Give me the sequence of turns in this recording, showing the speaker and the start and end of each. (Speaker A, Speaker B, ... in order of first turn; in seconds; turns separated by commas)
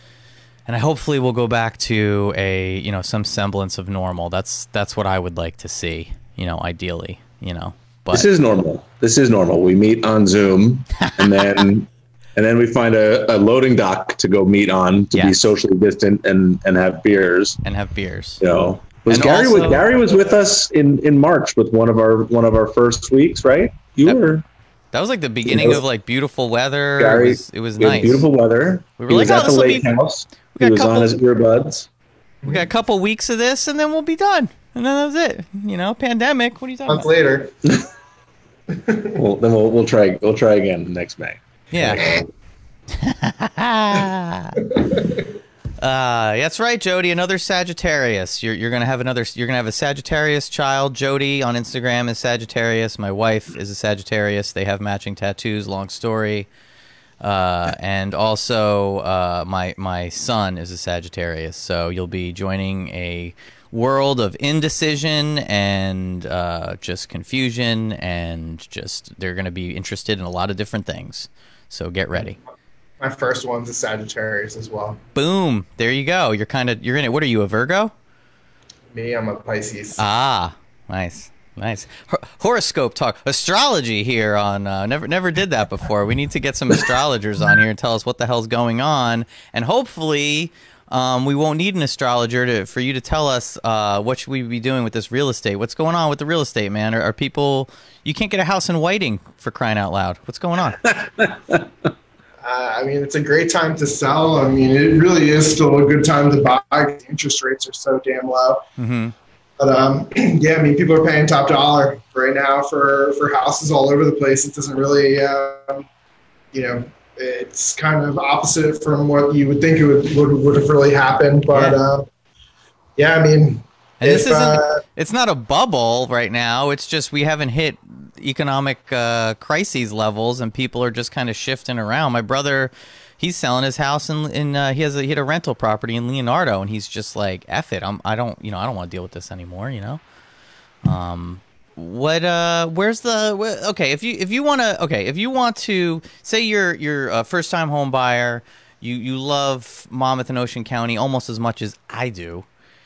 Speaker A: 0.7-8.3, Speaker B: 8.1-17.6, Speaker A: 11.1-11.6, Speaker A: 15.1-15.4, Speaker A: 17.6-18.4, Speaker B: 18.4-24.4, Speaker A: 19.1-19.8, Speaker A: 24.9-28.3, Speaker B: 25.4-25.8, Speaker B: 27.0-31.9, Speaker A: 29.0-29.9, Speaker A: 30.5-31.1, Speaker A: 32.4-37.1, Speaker C: 36.9-37.5, Speaker C: 38.7-39.2, Speaker B: 39.1-42.2, Speaker A: 41.7-42.0, Speaker C: 42.0-42.2, Speaker A: 43.0-44.6, Speaker C: 44.7-45.2, Speaker A: 45.8-56.5, Speaker A: 57.2-72.4, Speaker C: 73.0-75.0, Speaker A: 75.1-77.9, Speaker C: 78.9-80.0, Speaker A: 80.0-100.8, Speaker B: 100.8-101.7, Speaker C: 102.4-108.6, Speaker A: 108.8-109.1, Speaker C: 109.6-115.9, Speaker C: 116.5-122.1, Speaker A: 121.5-121.8, Speaker C: 123.0-124.8, Speaker A: 124.0-140.0, Speaker A: 140.8-152.4